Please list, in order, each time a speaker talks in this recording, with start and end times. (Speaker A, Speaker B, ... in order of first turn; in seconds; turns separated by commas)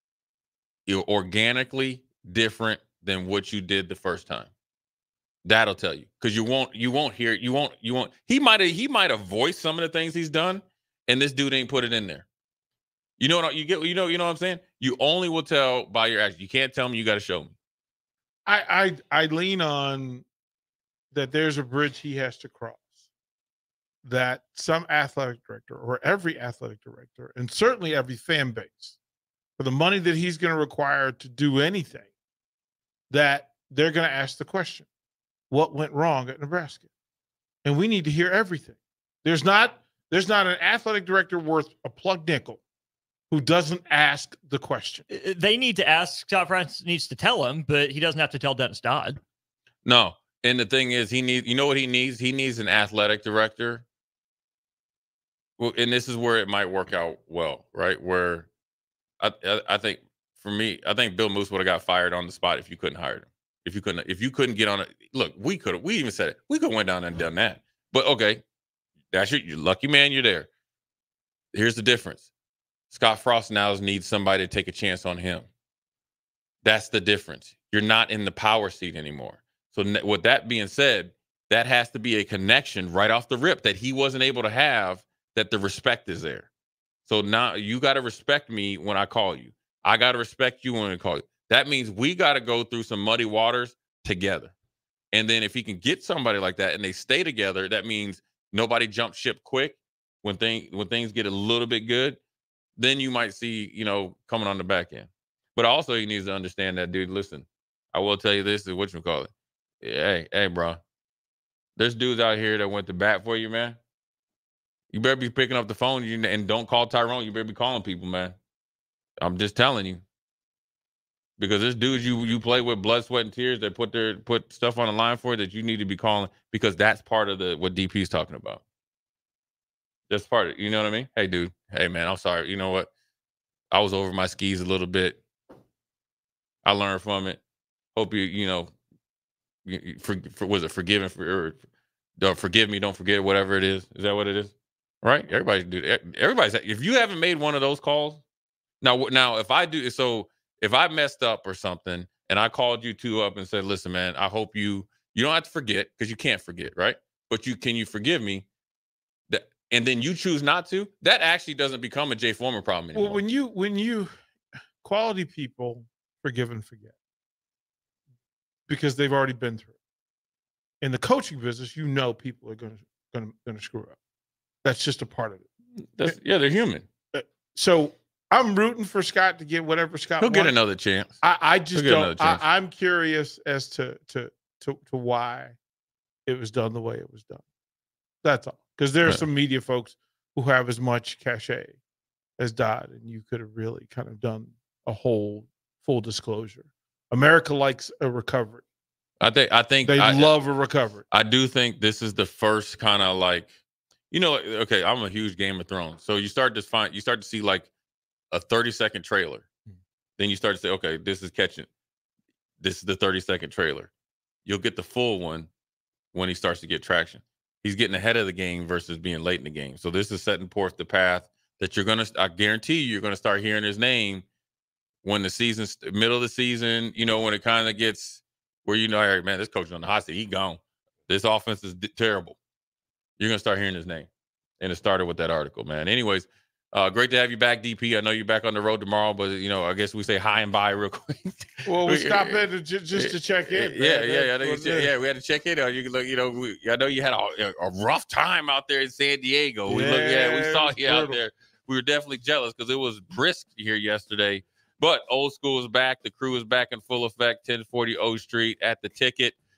Speaker A: 0.9-4.5, Speaker A: 5.4-12.2, Speaker A: 13.2-17.5, Speaker B: 18.4-20.2, Speaker B: 21.1-23.0, Speaker B: 24.0-29.0, Speaker B: 29.6-32.1, Speaker B: 33.1-34.9, Speaker B: 35.5-36.9, Speaker B: 37.6-42.6, Speaker B: 43.3-45.0, Speaker C: 45.1-49.2, Speaker A: 49.8-53.8, Speaker A: 55.6-58.5, Speaker A: 59.2-68.4, Speaker A: 69.1-70.5, Speaker A: 71.5-72.3, Speaker A: 72.9-75.5, Speaker A: 76.6-86.5, Speaker A: 87.0-94.5, Speaker A: 95.1-102.2, Speaker A: 102.8-110.8, Speaker A: 111.8-113.8, Speaker A: 114.9-118.3, Speaker A: 119.2-120.0, Speaker A: 121.4-128.6, Speaker A: 130.1-132.9, Speaker A: 133.7-135.2, Speaker A: 136.6-137.4, Speaker A: 137.9-138.7, Speaker A: 139.6-141.6, Speaker A: 142.2-148.2, Speaker A: 148.8-158.4, Speaker A: 159.3-163.2, Speaker B: 162.9-164.1, Speaker B: 164.8-166.9, Speaker B: 168.7-169.7, Speaker B: 170.8-173.9, Speaker B: 174.6-175.5, Speaker A: 175.9-176.8, Speaker B: 177.1-180.5, Speaker A: 180.2-181.2, Speaker B: 181.2-185.6, Speaker A: 181.7-182.4, Speaker B: 186.3-187.4, Speaker B: 188.2-191.8, Speaker B: 192.4-198.6, Speaker A: 199.2-200.3, Speaker B: 199.8-201.0, Speaker A: 201.1-203.5, Speaker A: 204.1-207.7, Speaker A: 208.3-209.5, Speaker A: 210.2-211.7, Speaker A: 212.6-213.9, Speaker A: 214.4-215.5, Speaker A: 216.1-224.2, Speaker A: 225.0-232.4, Speaker A: 233.2-234.1, Speaker A: 234.6-259.4, Speaker B: 241.7-244.9, Speaker B: 249.7-251.2